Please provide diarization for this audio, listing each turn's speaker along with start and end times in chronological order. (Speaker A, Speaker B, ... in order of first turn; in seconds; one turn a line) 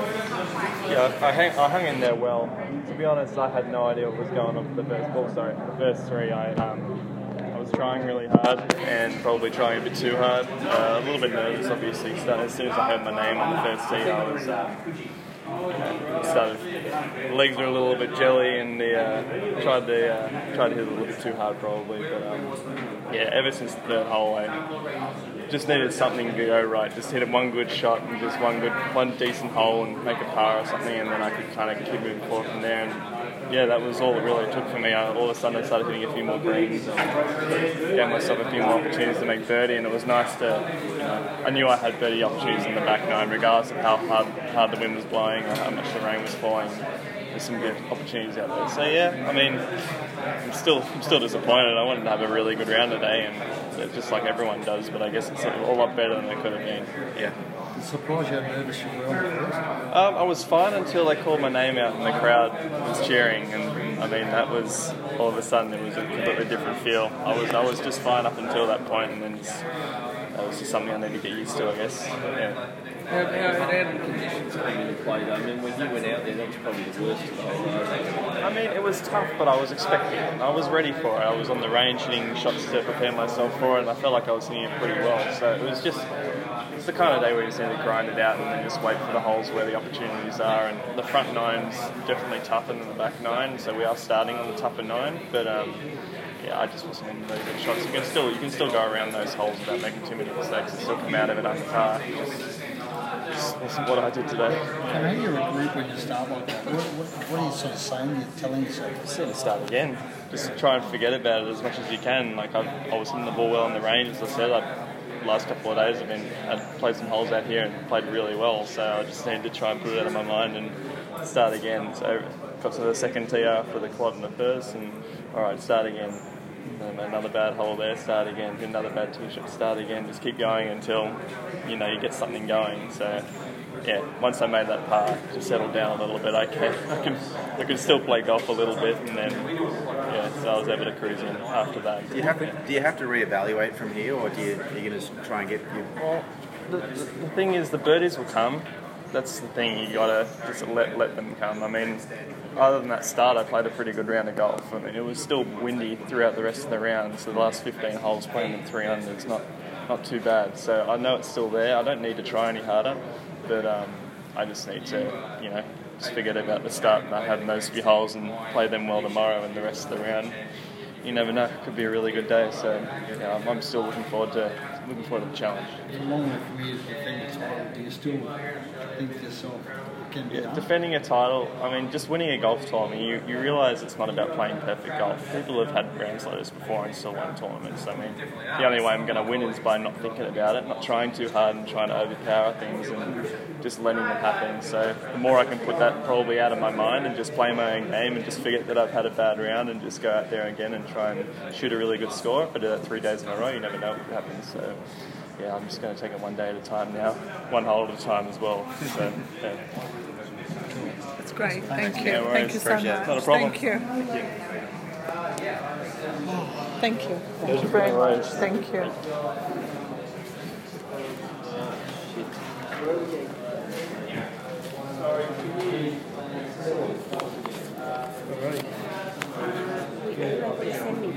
Speaker A: 0.9-7.0
Speaker A: 7.5-14.7
Speaker A: 15.7-16.7
Speaker A: 17.3-22.5
Speaker A: 23.1-24.6
Speaker A: 25.5-37.1
Speaker A: 37.9-49.6
Speaker A: 50.4-57.3
Speaker B: 57.8-59.6
Speaker A: 59.9-69.6
Speaker A: 70.3-72.6
Speaker C: 73.1-78.2
Speaker A: 78.4-86.1
Speaker A: 86.8-95.8
Speaker A: 96.4-102.4
Speaker A: 103.3-105.1
Speaker B: 104.8-109.0
Speaker A: 109.0-114.7
Speaker A: 115.2-133.3
Speaker A: 133.8-139.5
Speaker A: 140.1-142.5
Speaker D: 142.1-145.9
Speaker A: 146.0-152.0
Speaker A: 152.6-170.4
Speaker A: 171.0-175.8
Speaker B: 175.9-178.4
Speaker B: 178.9-180.7
Speaker A: 180.3-204.8
Speaker A: 205.4-209.6
Speaker B: 210.7-212.4
Speaker E: 211.2-213.9
Speaker A: 211.9-213.6
Speaker D: 212.6-213.1
Speaker E: 216.3-218.9
Speaker C: 217.5-218.4
Speaker A: 217.5-219.0
Speaker C: 221.4-222.4
Speaker C: 223.8-224.2
Speaker B: 228.3-228.6